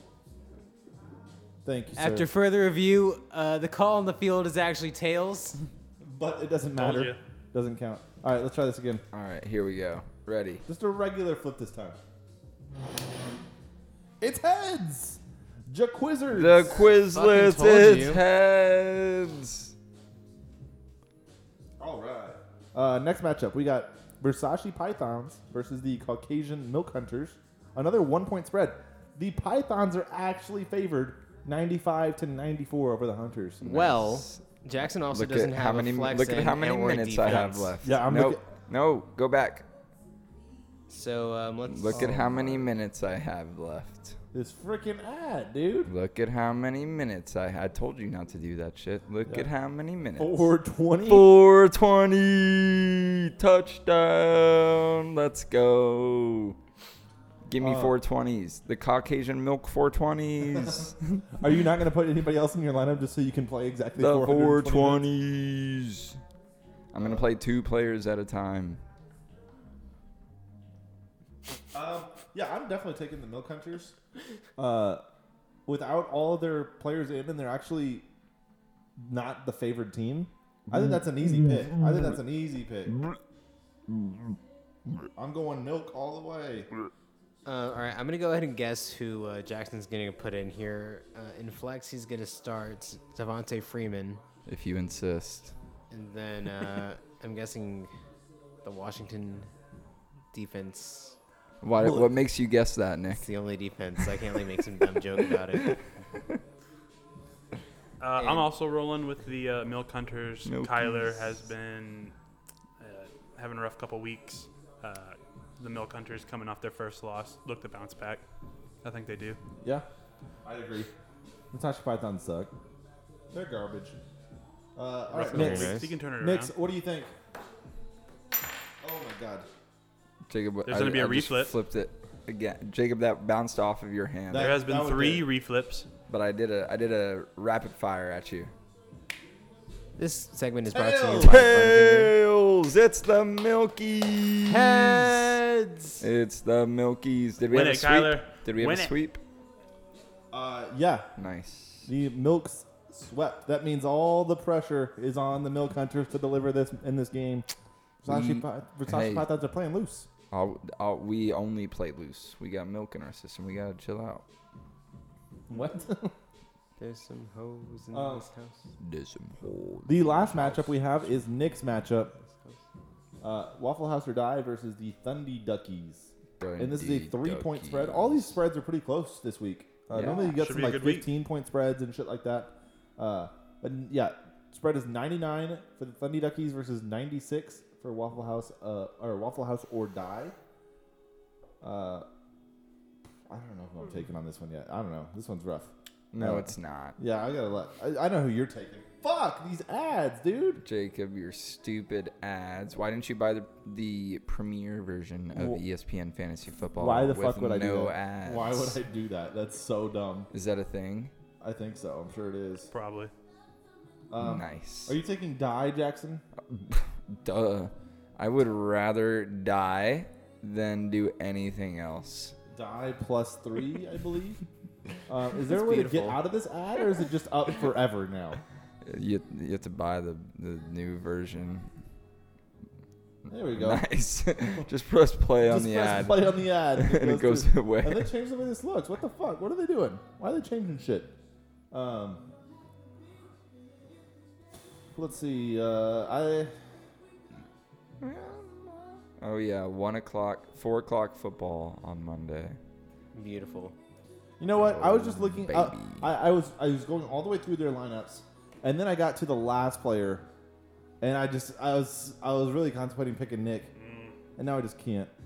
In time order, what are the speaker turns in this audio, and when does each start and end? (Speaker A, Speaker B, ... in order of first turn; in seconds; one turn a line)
Speaker A: 1.6-2.3
Speaker B: 2.0-5.6
Speaker A: 6.0-9.0
Speaker C: 6.8-7.2
Speaker D: 9.1-10.7
Speaker A: 10.7-12.0
Speaker A: 14.2-16.8
Speaker D: 16.3-19.7
Speaker B: 16.8-18.2
Speaker A: 21.8-33.7
Speaker D: 33.6-39.7
Speaker B: 33.6-37.8
Speaker A: 37.8-38.4
Speaker B: 40.9-42.2
Speaker D: 41.7-44.2
Speaker A: 41.9-42.7
Speaker A: 44.3-45.9
Speaker D: 45.9-50.5
Speaker A: 50.2-51.3
Speaker D: 51.0-56.6
Speaker D: 57.5-61.2
Speaker A: 57.6-58.0
Speaker A: 61.4-65.1
Speaker D: 64.0-66.2
Speaker D: 66.9-68.8
Speaker A: 67.0-67.2
Speaker A: 71.7-74.0
Speaker A: 74.6-75.0
Speaker A: 75.7-78.1
Speaker A: 79.0-83.0
Speaker A: 85.2-86.7
Speaker B: 87.5-94.2
Speaker D: 94.5-95.5
Speaker B: 95.9-97.9
Speaker B: 98.6-99.5
Speaker B: 100.3-101.2
Speaker D: 101.6-103.3
Speaker A: 101.8-102.1
Speaker B: 103.1-105.8
Speaker C: 108.0-112.2
Speaker B: 108.2-108.5
Speaker D: 110.5-111.4
Speaker C: 112.8-118.2
Speaker C: 118.8-119.4
Speaker A: 119.6-119.9
Speaker A: 120.5-120.9
Speaker A: 121.5-122.5
Speaker A: 123.3-124.0
Speaker A: 124.8-127.1
Speaker C: 125.1-126.5
Speaker B: 125.3-126.0
Speaker A: 128.8-129.5
Speaker D: 130.3-134.6
Speaker C: 130.7-131.5
Speaker A: 134.3-135.3
Speaker C: 134.4-135.9
Speaker D: 136.1-138.5
Speaker B: 140.0-142.1
Speaker A: 140.7-141.4
Speaker D: 141.2-145.3
Speaker B: 144.5-146.0
Speaker D: 146.0-149.2
Speaker C: 147.5-148.9
Speaker A: 150.3-151.1
Speaker D: 151.2-151.9
Speaker A: 151.8-157.5
Speaker A: 158.0-160.1
Speaker D: 158.1-159.3
Speaker D: 160.3-164.2
Speaker A: 165.5-166.1
Speaker B: 166.8-168.6
Speaker A: 167.9-168.3
Speaker D: 168.8-170.8
Speaker A: 169.9-172.1
Speaker B: 172.3-172.6
Speaker A: 173.2-190.3
Speaker D: 176.4-178.4
Speaker D: 179.9-180.3
Speaker C: 180.2-181.1
Speaker A: 191.6-192.1
Speaker A: 193.3-200.6
Speaker D: 196.1-197.0
Speaker D: 200.6-208.8
Speaker A: 205.3-205.6
Speaker A: 206.8-210.3
Speaker D: 210.3-211.1
Speaker A: 211.4-212.7
Speaker C: 212.7-213.1
Speaker A: 214.1-216.2
Speaker D: 214.2-215.0
Speaker D: 216.5-222.3
Speaker A: 222.5-224.4
Speaker A: 225.1-228.4
Speaker B: 225.4-226.2
Speaker D: 228.8-231.7
Speaker A: 233.3-233.8
Speaker D: 233.5-238.1
Speaker A: 235.4-241.1
Speaker A: 241.7-242.2
Speaker A: 244.9-246.7
Speaker D: 248.0-252.6
Speaker B: 253.1-253.8
Speaker A: 254.4-260.3
Speaker D: 254.6-256.1
Speaker A: 261.0-263.7
Speaker C: 263.8-264.2
Speaker A: 264.4-265.1